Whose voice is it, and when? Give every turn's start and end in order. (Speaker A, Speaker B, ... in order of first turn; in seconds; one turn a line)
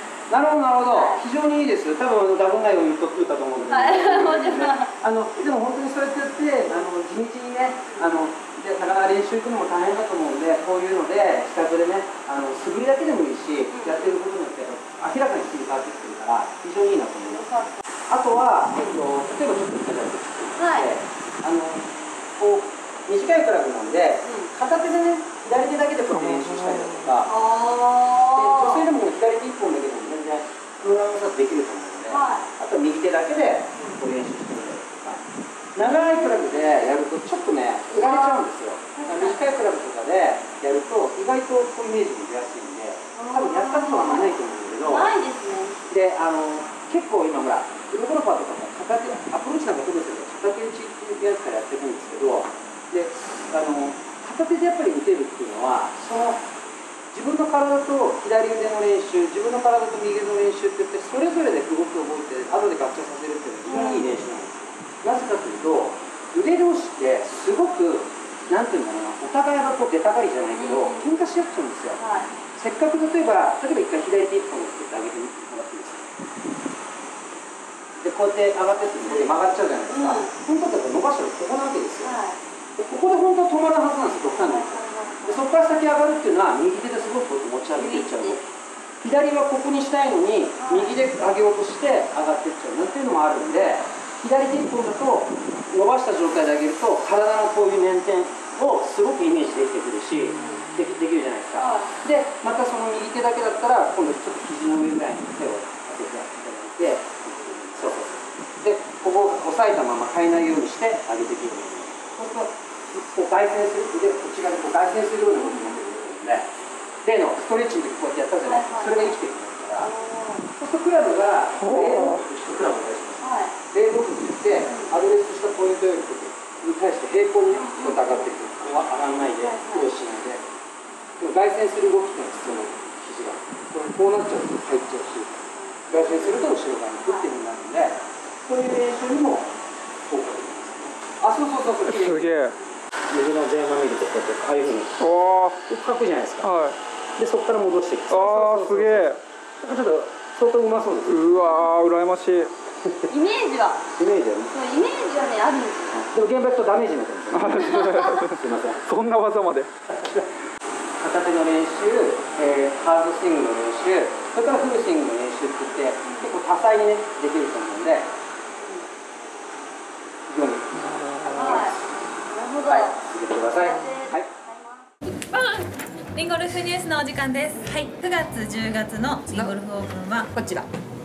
Speaker A: 0.3-27.3
Speaker B: 0.9-1.2
Speaker B: 3.7-4.9
Speaker B: 13.7-14.2
Speaker B: 17.2-17.8
Speaker B: 20.6-20.9
Speaker B: 24.2-24.5
Speaker B: 27.3-28.9
Speaker A: 28.3-35.2
Speaker B: 32.1-32.5
Speaker A: 35.8-45.1
Speaker B: 35.9-36.7
Speaker B: 37.9-39.6
Speaker B: 43.1-45.8
Speaker A: 45.9-56.4
Speaker A: 57.1-72.0
Speaker B: 63.7-64.2
Speaker B: 70.5-71.1
Speaker B: 72.0-72.3
Speaker A: 72.5-76.1
Speaker A: 78.0-82.2
Speaker B: 79.1-79.3
Speaker B: 79.9-80.3
Speaker B: 82.0-82.4
Speaker A: 82.8-88.4
Speaker B: 84.4-85.5
Speaker B: 87.7-88.4
Speaker A: 89.0-116.5
Speaker B: 90.6-91.0
Speaker B: 100.4-100.7
Speaker B: 101.6-101.9
Speaker B: 115.4-115.9
Speaker A: 117.0-119.9
Speaker B: 118.4-119.2
Speaker B: 119.8-120.5
Speaker A: 120.5-130.4
Speaker B: 123.2-123.5
Speaker B: 124.7-125.0
Speaker B: 127.5-128.3
Speaker B: 129.4-129.9
Speaker A: 131.2-139.5
Speaker B: 135.6-137.3
Speaker A: 140.1-142.4
Speaker C: 142.2-142.5
Speaker A: 143.1-146.7
Speaker C: 145.0-145.6
Speaker C: 146.4-146.8
Speaker A: 147.2-151.5
Speaker C: 148.1-149.2
Speaker C: 151.1-152.5
Speaker B: 153.1-153.8
Speaker A: 154.0-154.6
Speaker B: 154.5-156.1
Speaker A: 156.0-158.9
Speaker C: 157.3-158.2
Speaker B: 157.6-158.2
Speaker C: 159.0-159.7
Speaker A: 159.9-160.3
Speaker A: 161.0-168.1
Speaker B: 168.6-168.9
Speaker A: 170.3-171.7
Speaker B: 171.3-174.9
Speaker A: 172.7-174.3
Speaker D: 175.3-180.3
Speaker C: 180.3-180.7